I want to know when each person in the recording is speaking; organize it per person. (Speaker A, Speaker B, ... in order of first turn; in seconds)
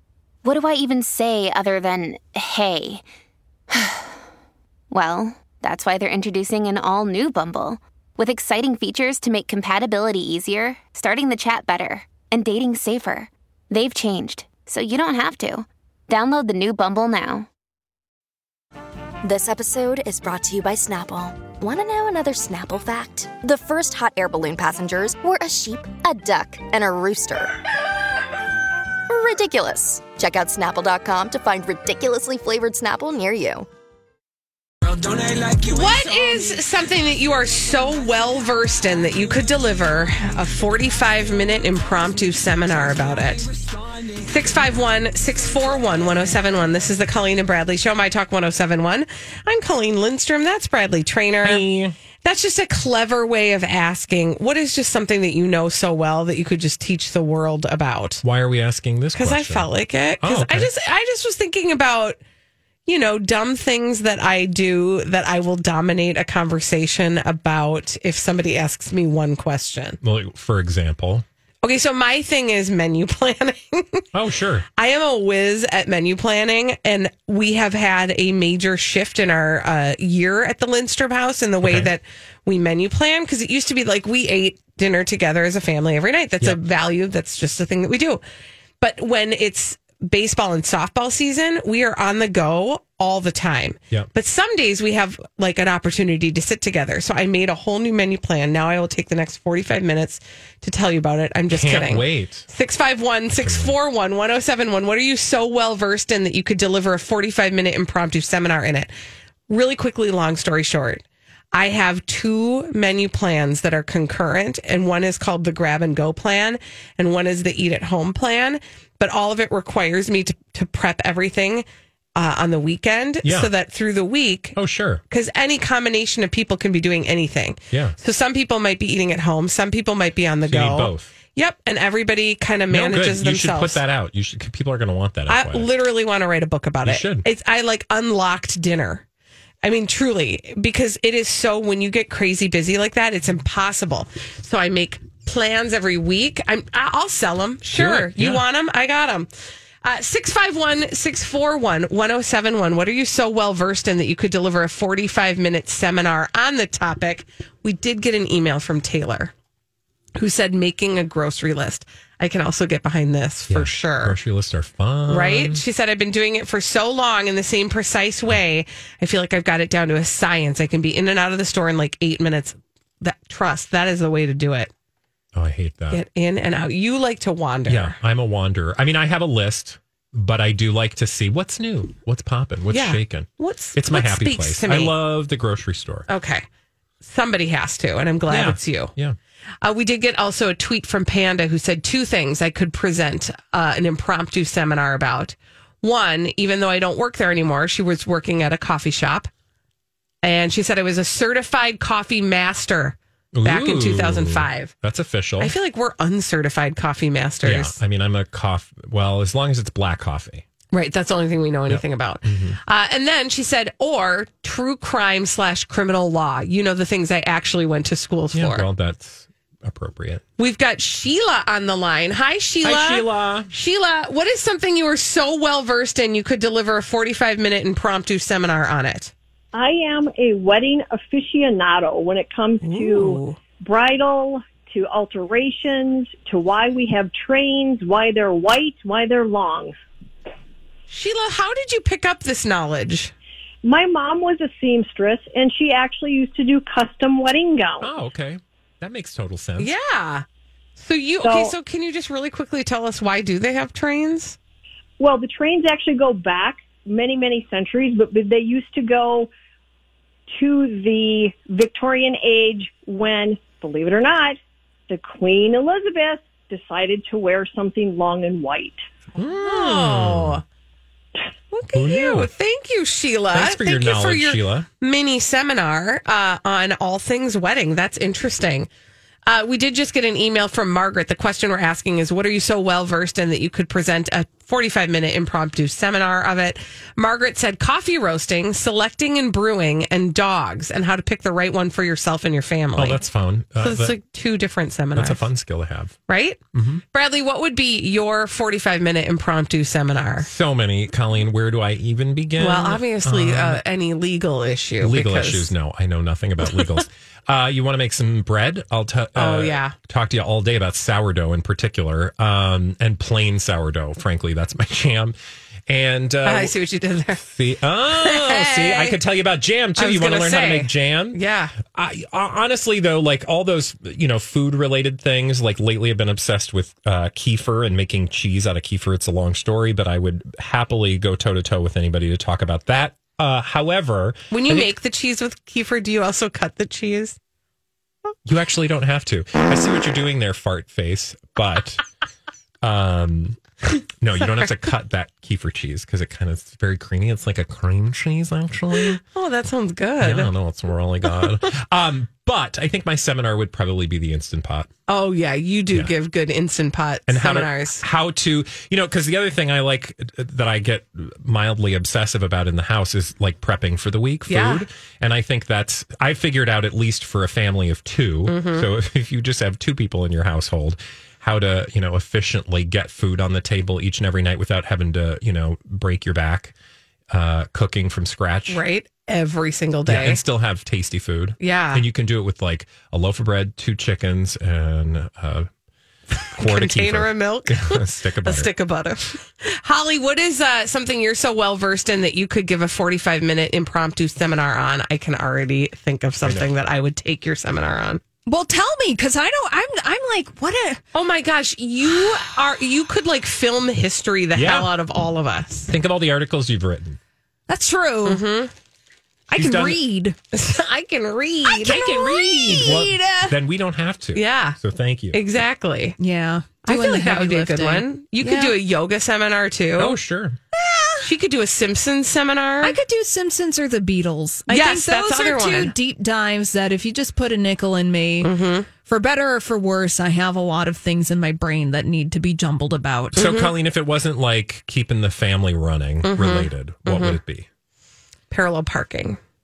Speaker A: 0.4-3.0, 3.7-4.2, 4.9-17.5
Speaker B: 19.2-27.5, 29.1-33.7
Speaker C: 35.6-43.5, 44.2-51.6, 52.2-58.2, 59.1-62.2, 62.9-70.0, 71.6-74.0, 74.8-88.2, 88.8-108.9, 109.5-124.5, 125.1-133.8, 135.3-139.0, 139.6-149.3, 149.8-159.3, 160.2-164.2, 165.1-174.7, 175.9-178.0, 182.7-184.9, 186.1-186.4, 187.0-188.9, 189.6-199.3, 200.2-204.7, 205.4-207.8, 210.7-218.7, 220.4-229.1, 232.6-233.4, 240.9-243.1, 249.6-250.2, 250.8-254.4, 269.4-270.4, 271.5-278.7, 279.3-293.0, 293.6-295.3, 296.1-296.4, 296.9-300.3, 302.4-305.5, 309.1-309.7, 316.2-317.2, 317.9-319.0, 319.8-321.5, 334.3-337.2, 344.2-344.5, 349.0-350.3, 354.9-357.8, 364.3-364.6, 368.3-368.6, 378.5-380.2, 381.4-381.8, 386.2-398.0, 400.9-405.7, 408.0-408.5, 410.3-411.8, 414.1-414.6, 415.1-416.0, 416.6-420.0, 421.0-422.8, 424.5-425.7, 428.2-428.7, 433.1-433.5, 436.0-437.2, 438.3-439.2
Speaker D: 51.4-52.0, 58.2-60.7, 70.0-71.2, 74.1-74.6, 81.6-81.9, 101.5-102.5, 103.3-103.8, 123.2-123.5, 124.5-125.0, 127.7-128.0, 130.4-131.1, 132.7-135.7, 136.8-137.2, 147.7-148.4, 163.5-165.6, 175.3-176.0, 177.7-186.1, 188.3-189.2, 203.3-205.5, 207.4-210.4, 211.7-212.6, 218.3-220.2, 222.6-223.5, 247.8-249.7, 269.1-270.4, 271.7-272.3, 273.3-274.7, 292.8-294.0, 294.9-296.0, 296.5-296.8, 300.2-303.6, 304.8-316.5, 317.2-334.7, 338.2-341.8, 342.6-343.4, 344.0-349.0, 350.0-354.7, 357.1-376.5, 377.1-378.6, 379.9-385.5, 386.4-388.5, 396.2-396.5, 404.3-404.7, 405.7-407.0, 409.3-409.8, 411.6-415.2, 419.8-420.4, 433.1-437.5
Speaker E: 229.5-239.8, 243.6-247.9, 251.2-251.5, 255.0-259.3, 260.3-268.8
Speaker F: 398.3-400.8, 407.5-408.2, 409.3-410.1, 411.5-413.3, 416.0-418.6, 420.6-421.0, 422.6-433.1